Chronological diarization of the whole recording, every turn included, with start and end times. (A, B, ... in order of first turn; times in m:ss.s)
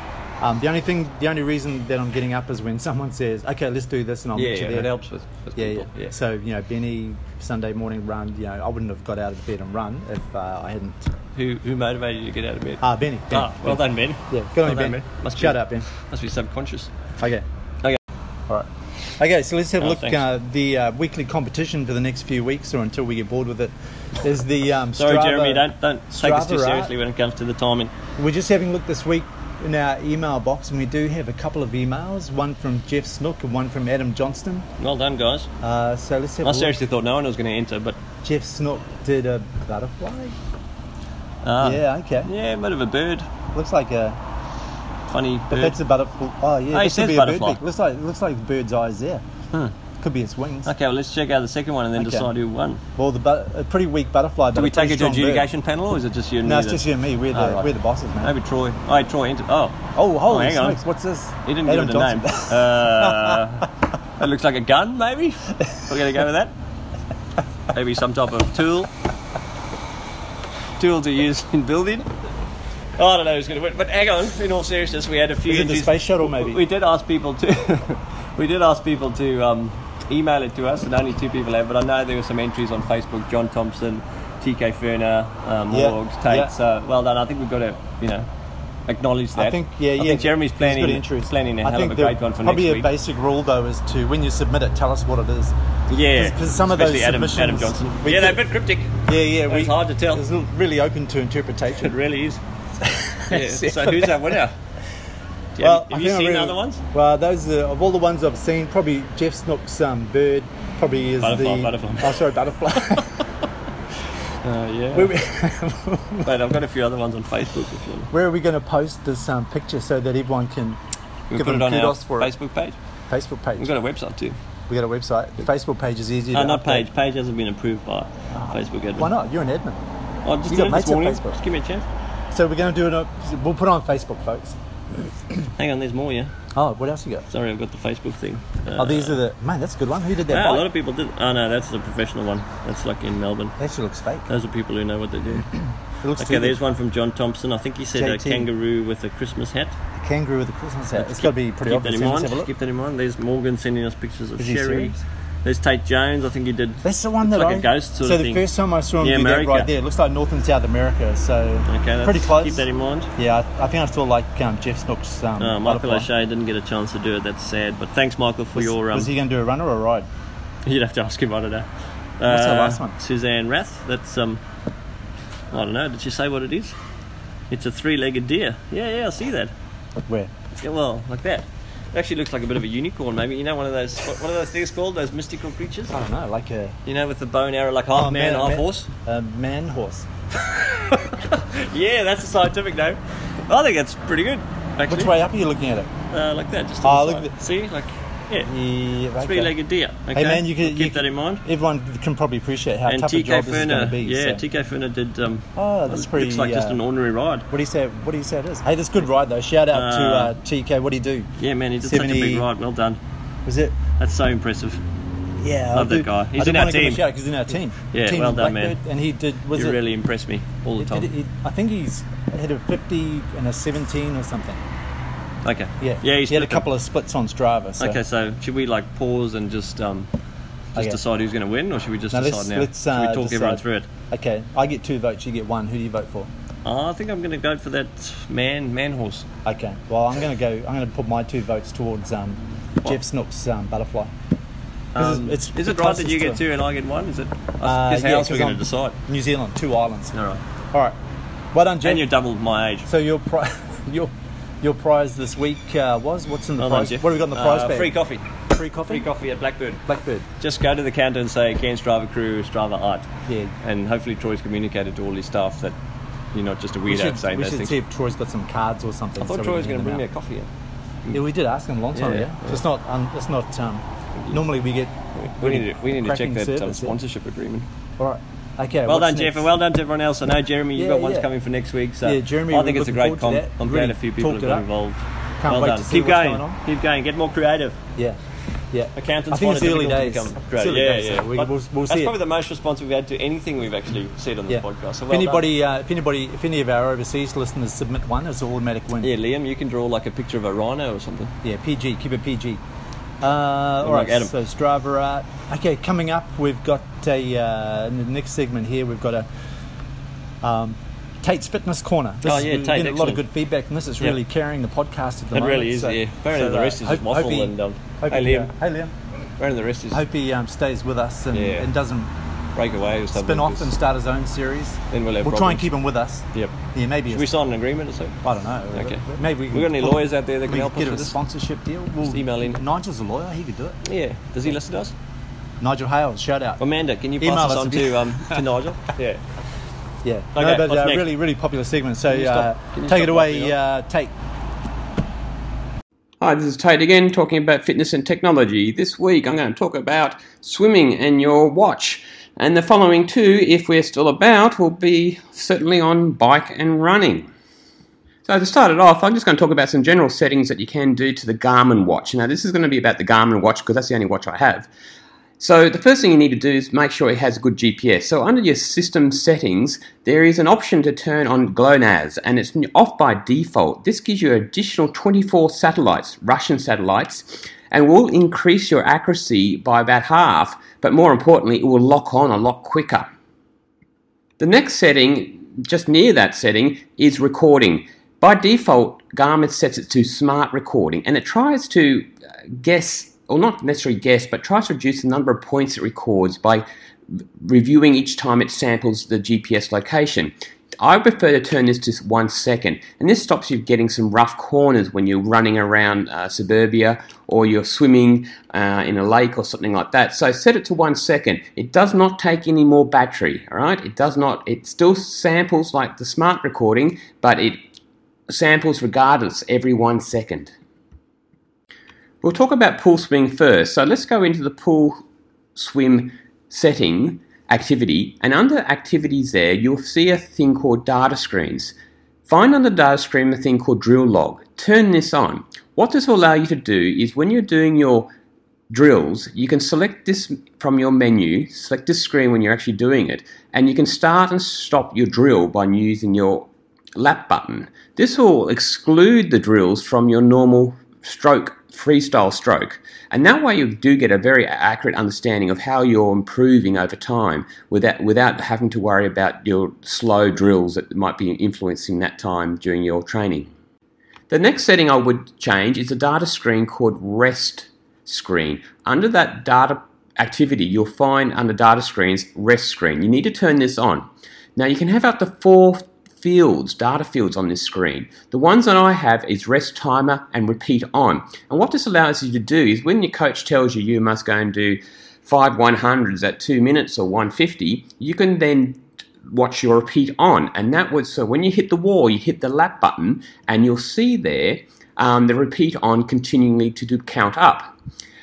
0:00.4-0:04.9 A
0:04.3-0:06.1 B
0:05.6-0:11.1 A
0:11.4-0:16.9 B
0:12.8-0:15.9 A
0:17.2-0:17.4 A
0:18.5-0:26.9 A
0:19.8-0:20.2 B
0:25.0-0:27.9 B
0:28.2-0:34.7 A
0:34.8-0:35.5 B
0:35.6-0:36.8 A
0:36.4-0:38.0 B
0:38.2-0:40.4 A
0:41.4-0:43.3 B
0:41.6-0:42.3 A
0:43.5-0:44.2 A
0:45.1-0:45.8 B
0:45.5-0:49.2 A
0:46.7-0:47.6 B
0:50.0-0:50.7 A
0:50.6-0:52.8 B
0:52.0-0:52.3 A
0:53.0-0:55.4 A
0:54.6-1:00.8 B
0:56.4-0:58.3 A
1:00.0-1:03.4 A
1:01.4-1:06.5 B
1:07.7-1:08.9 B
1:10.8-1:12.1 B
1:13.0-1:28.3 B
1:15.5-1:16.6 A
1:25.7-1:26.5 A
1:28.9-1:32.9 B
1:29.4-1:35.5 A
1:35.9-1:40.3 B
1:36.2-1:38.4 A
1:39.0-1:41.9 A
1:41.8-1:42.4 B
1:42.8-1:44.2 A
1:43.3-1:44.6 B
1:45.6-1:46.8 B
1:45.6-1:53.2 A
1:51.2-1:52.3 B
1:54.4-1:55.1 B
1:54.9-1:56.3 A
1:56.2-1:58.1 B
1:58.1-2:00.8 A
2:01.3-2:02.8 B
2:01.3-2:02.3 A
2:03.1-2:03.7 A
2:03.6-2:04.4 B
2:04.7-2:06.9 A
2:06.3-2:09.1 B
2:08.3-2:09.8 A
2:10.2-2:11.8 B
2:10.5-2:11.4 A
2:12.3-2:14.6 A
2:15.6-2:16.3 B
2:16.5-2:17.3 A
2:17.3-2:19.2 B
2:18.8-2:20.7 A
2:20.3-2:23.6 B
2:23.6-2:24.3 A
2:24.3-2:25.5 B
2:26.0-2:26.6 A
2:26.2-2:29.8 B
2:28.0-2:28.5 A
2:30.0-2:32.5 A
2:31.0-2:38.4 B
2:34.4-2:35.0 A
2:36.8-2:42.7 A
2:39.0-2:39.7 B
2:41.7-2:43.1 B
2:43.2-2:46.1 A
2:45.4-2:49.1 B
2:48.6-2:50.1 A
2:50.6-2:51.7 B
2:52.2-2:54.4 B
2:52.3-2:53.0 A
2:55.5-2:56.8 B
2:57.5-2:59.5 B
3:00.6-3:06.0 B
3:05.9-3:06.8 A
3:06.9-3:08.9 B
3:07.9-3:10.1 A
3:10.6-3:15.1 B
3:14.9-3:15.9 A
3:16.1-3:18.5 B
3:16.8-3:17.4 A
3:18.5-3:19.5 A
3:19.2-3:21.4 B
3:20.1-3:24.4 A
3:22.9-3:27.5 B
3:25.6-3:26.8 A
3:27.5-3:31.3 A
3:29.7-3:30.4 B
3:31.4-3:33.0 B
3:31.8-3:32.5 A
3:33.5-3:33.8 A
3:34.0-3:34.8 B
3:35.4-3:39.8 A
3:35.7-3:37.0 B
3:37.9-3:38.8 B
3:39.5-3:41.1 B
3:40.8-3:44.6 A
3:45.4-3:46.7 B
3:45.8-3:48.0 A
3:47.8-3:50.1 B
3:50.8-3:53.9 B
3:52.1-3:56.3 A
3:56.6-3:59.3 B
3:59.4-4:04.1 A
4:04.9-4:09.0 B
4:05.0-4:06.4 A
4:07.6-4:10.1 A
4:10.1-4:10.4 B
4:11.5-4:12.1 A
4:11.8-4:12.9 B
4:12.9-4:18.0 A
4:16.6-4:18.3 B
4:18.5-4:19.1 A
4:18.8-4:19.8 B
4:19.9-4:20.3 A
4:20.4-4:23.1 B
4:23.3-4:23.5 A
4:23.6-4:25.8 B
4:26.3-4:27.8 B
4:26.9-4:30.0 A
4:29.2-4:30.5 B
4:31.1-4:36.9 A
4:31.9-4:32.6 B
4:34.2-4:34.4 B
4:35.1-4:37.7 B
4:38.0-4:39.5 A
4:38.9-4:47.8 B
4:40.8-4:41.3 A
4:42.0-4:44.7 A
4:45.4-4:46.6 A
4:48.7-4:52.1 A
4:49.0-4:55.5 B
4:54.5-4:59.1 A
4:59.0-5:01.3 B
5:01.4-5:02.6 A
5:03.2-5:09.3 A
5:03.8-5:04.3 B
5:10.4-5:18.9 A
5:12.2-5:13.2 B
5:15.3-5:18.5 B
5:19.4-5:20.0 B
5:19.9-5:22.1 A
5:21.3-5:21.7 B
5:22.6-5:23.7 B
5:23.1-5:27.3 A
5:24.9-5:25.7 B
5:27.1-5:28.2 B
5:28.2-5:33.8 A
5:28.7-5:31.2 B
5:32.0-5:32.6 B
5:33.8-5:35.0 B
5:35.6-5:36.6 A
5:36.6-5:39.2 B
5:37.2-5:38.4 A
5:40.0-5:44.1 A
5:40.4-5:41.1 B
5:42.1-5:43.6 B
5:46.2-5:57.3 C
5:58.2-6:04.7 C
6:05.4-6:23.1 C
6:24.4-6:36.6 C
6:37.4-6:57.6 C
6:58.3-7:00.5 C
7:02.2-7:05.0 C
7:05.6-7:11.8 C
7:12.3-7:18.1 C
7:18.7-7:43.5 C
7:44.3-8:17.7 C